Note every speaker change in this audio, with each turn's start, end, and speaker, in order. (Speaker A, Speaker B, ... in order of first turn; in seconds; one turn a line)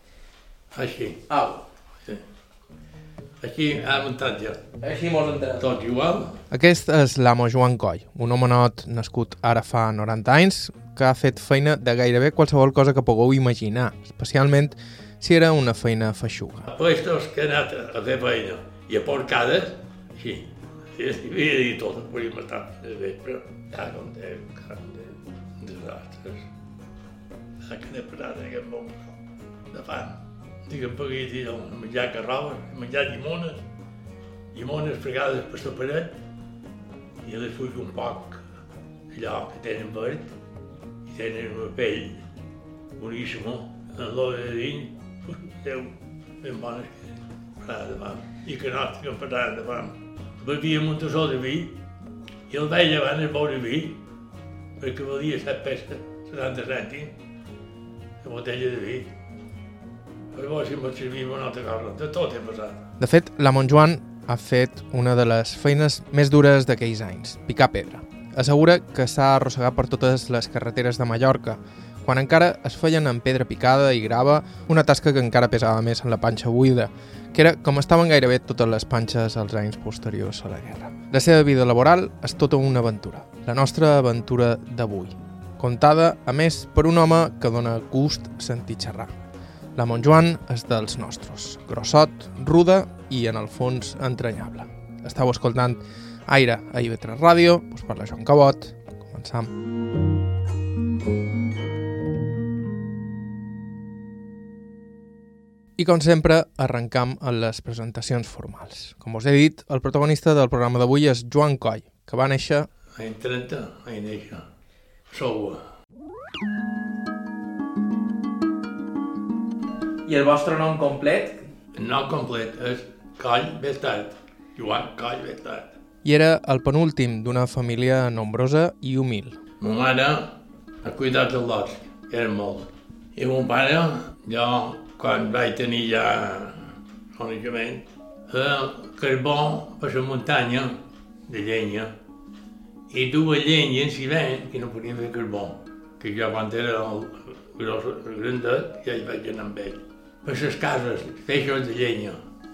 Speaker A: 0.7-1.3
Speaker B: 1.3-1.6
Speaker A: 3.4-4.7
Speaker B: 4.8-5.7
Speaker A: 5.6-6.4
Speaker B: 6.5-16.7
Speaker A: 16.7-26.5
Speaker A: 27.6-29.2
Speaker A: 29.7-33.6
Speaker A: 34.5-36.2
Speaker A: 37.2-38.4
Speaker A: 39.1-40.3
Speaker A: 41.0-42.2
Speaker A: 43.0-51.8
Speaker A: 52.5-54.0
Speaker A: 54.8-57.2
Speaker A: 58.2-59.1
Speaker A: 60.3-62.9
Speaker B: 63.0-89.1
Speaker B: 89.8-99.5
Speaker B: 105.8-112.7
Speaker A: 113.0-114.5
Speaker A: 115.1-115.6
Speaker B: 120.1-121.4
Speaker A: 121.8-125.8
Speaker B: 126.0-129.4
Speaker A: 129.6-130.3
Speaker A: 130.8-141.9
Speaker A: 142.9-152.2